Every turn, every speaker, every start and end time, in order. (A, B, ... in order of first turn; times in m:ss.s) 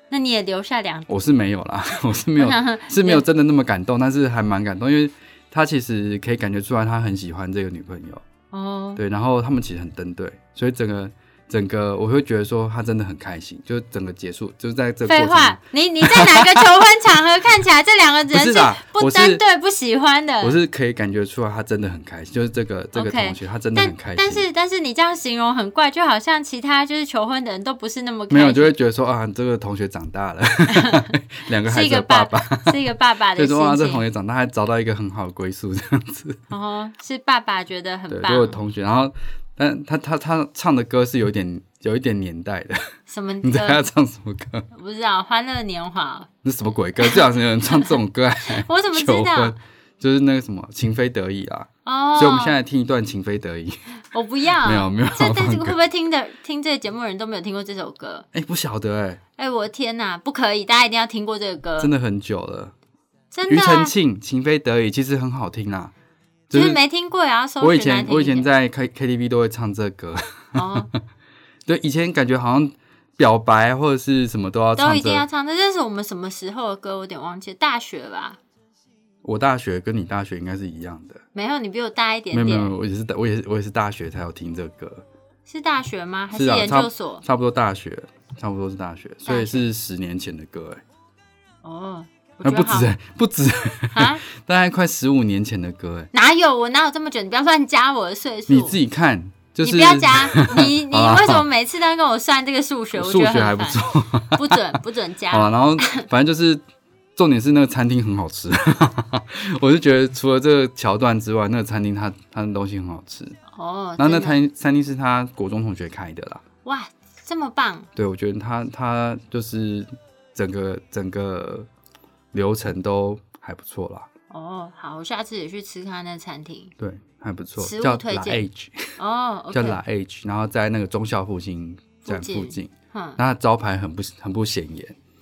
0:00.1-0:01.1 A
0:01.1-0:08.2 B
0:02.4-0:03.2 A
0:08.5-0:09.0 A
0:09.0-0:16.8 B
0:15.1-0:20.6 A
0:18.3-0:19.4 B
0:20.4-0:24.5 B
0:23.0-0:28.7 A
0:28.3-0:36.4 B
0:30.7-0:34.0 A
0:36.5-0:38.6 A
0:38.1-0:44.7 B
0:43.1-0:43.9 A
0:44.7-0:46.3 A
0:46.4-0:53.8 B
0:47.0-0:48.0 A
0:48.5-0:49.6 A
0:51.8-0:52.6 A
0:54.1-0:58.3 A
0:54.6-0:55.8 B
0:58.3-0:59.2 B
0:59.4-1:01.9 A
1:01.8-1:02.7 B
1:03.3-1:03.9 A
1:03.5-1:05.9 B
1:06.5-1:06.8 B
1:06.5-1:08.5 A
1:07.6-1:10.7 B
1:10.6-1:10.9 A
1:11.7-1:15.2 B
1:14.8-1:18.4 A
1:19.2-1:21.2 B
1:21.3-1:22.7 A
1:22.3-1:25.1 B
1:25.5-1:27.2 A
1:26.3-1:30.8 B
1:29.3-1:29.7 A
1:31.6-1:32.9 A
1:32.4-1:36.1 B
1:33.9-1:34.2 A
1:36.1-1:38.8 A
1:38.5-1:41.5 B
1:39.6-1:46.1 A
1:42.9-1:44.8 B
1:45.3-1:46.6 B
1:47.2-1:53.4 B
1:53.6-1:54.4 A
1:54.0-1:56.4 B
1:56.6-1:57.9 A
1:58.0-2:01.7 B
2:02.3-2:04.1 B
2:04.3-2:06.7 A
2:06.8-2:09.0 B
2:07.6-2:08.5 A
2:09.0-2:09.8 A
2:09.5-2:15.0 B
2:12.0-2:13.2 A